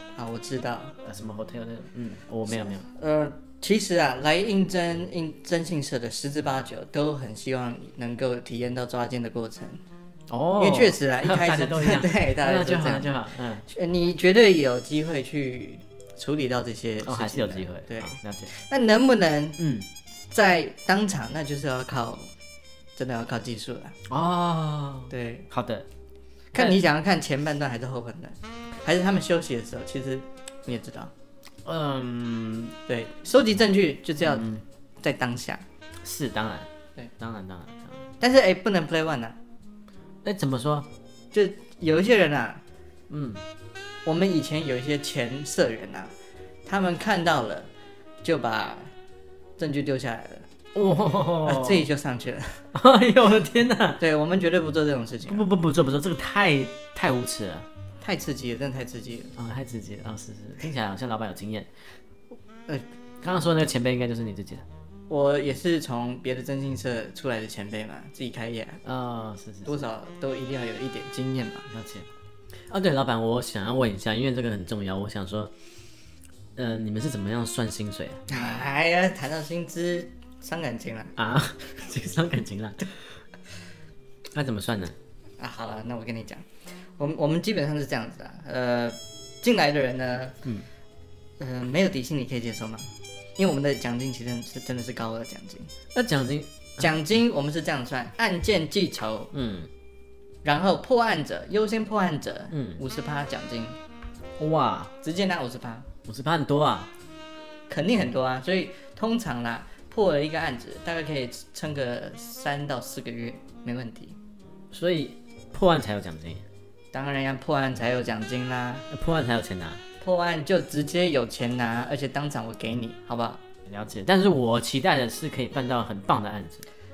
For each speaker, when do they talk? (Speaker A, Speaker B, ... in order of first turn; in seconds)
Speaker A: 0.1-1.0, 2.5-9.8, 10.6-13.2, 13.7-19.6, 20.3-22.3, 23.0-24.0, 25.1-25.5, 26.5-31.1, 32.9-34.5, 35.0-35.6, 38.2-39.4, 41.3-42.6, 44.1-46.1, 46.7-47.7, 48.2-48.9, 49.6-50.5, 51.4-52.6, 54.0-55.5, 58.0-59.3, 65.1-68.8, 69.7-71.7, 78.3-81.1, 85.4-86.5, 87.0-90.4, 91.4-95.7, 96.8-99.3, 100.4-103.8, 105.0-105.9, 107.7-114.2, 116.9-118.9, 120.0-123.4
Speaker B: 1.0-2.9, 10.3-13.6, 17.0-18.6, 19.6-19.9, 24.1-25.9, 31.6-32.8, 34.2-34.6, 36.0-38.1, 40.2-40.9, 43.1-43.4, 50.7-51.9, 52.7-54.0, 55.2-57.7, 59.4-61.7, 63.2-64.6, 68.8-69.8, 71.7-72.1, 72.7-75.5, 76.6-78.2, 81.2-82.9, 84.3-85.0, 95.9-96.9, 99.3-99.7, 102.5-102.8, 104.4-104.9, 106.0-106.9, 114.7-116.5, 118.9-119.8, 123.7-126.6